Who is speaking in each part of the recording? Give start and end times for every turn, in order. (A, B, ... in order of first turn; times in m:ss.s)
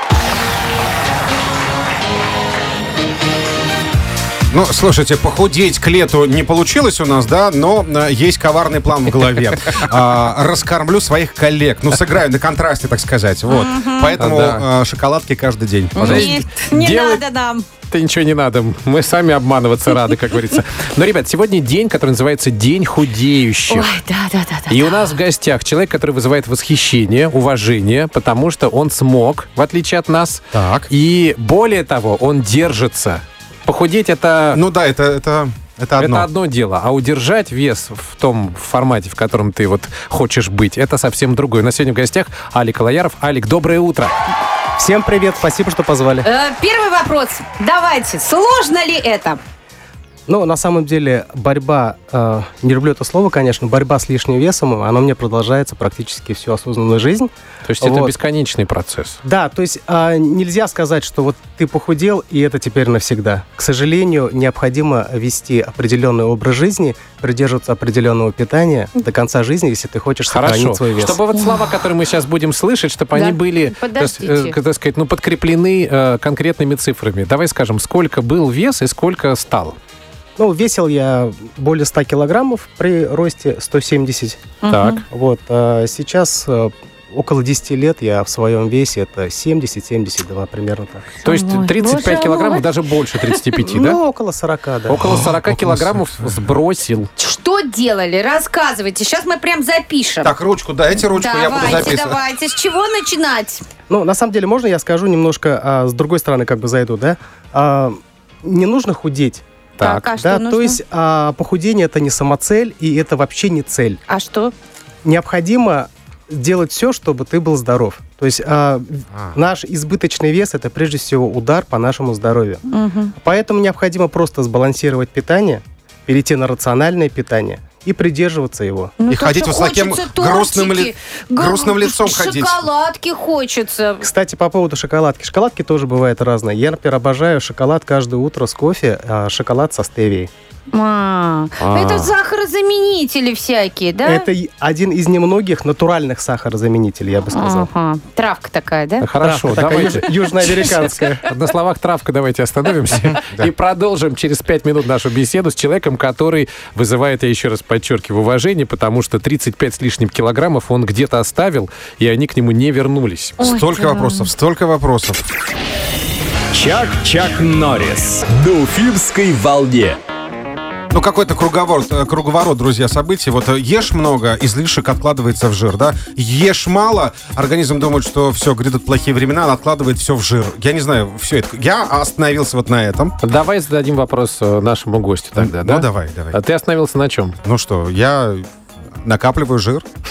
0:04.5-0:16.3 A
0:13.5-0:14.2 B
0:14.2-0:14.7 C
0:16.0-0:17.6 B
0:16.0-0:17.2 C
0:17.9-0:23.9 C
0:23.7-0:25.1 B
0:24.7-0:34.6 C
0:30.5-0:30.9 A
0:34.5-0:36.3 A
0:36.0-0:44.1 C
0:44.8-0:46.3 D
0:46.2-0:49.4 B
0:50.3-0:58.1 D
0:57.6-0:59.2 C
0:59.2-1:11.2 D
1:10.3-1:19.8 C
1:11.4-1:11.7 B
1:13.1-1:14.6 B
1:20.4-1:24.4 D
1:24.6-1:25.0 B
1:24.7-1:25.0 C
1:25.1-1:31.1 D
1:31.2-1:34.0 C
1:31.2-1:33.3 B
1:33.6-1:35.0 D
1:34.9-1:37.1 C
1:35.0-1:36.4 A
1:37.2-1:40.3 B
1:40.2-1:42.2 A
1:41.0-1:43.6 B
1:43.9-1:54.0 D
1:49.8-1:50.8 B
1:54.1-1:54.5 B
1:55.0-2:02.6 D
2:02.7-2:03.1 B
2:03.2-2:08.9 D
2:09.0-2:14.0 B
2:09.1-2:12.6 A
2:14.0-2:20.3 D
2:20.7-2:24.3 B
2:21.6-2:22.1 C
2:24.0-2:27.7 D
2:27.3-2:29.0 B
2:29.0-2:30.1 C
2:29.2-2:31.2 D
2:30.7-2:43.5 C
2:32.9-2:33.5 A
2:43.4-2:45.2 A
2:43.4-2:44.3 B
2:46.5-2:50.0 E
2:50.9-3:03.2 A
3:03.2-3:07.4 C
3:05.4-3:06.4 A
3:07.4-3:08.5 A
3:09.0-3:09.9 A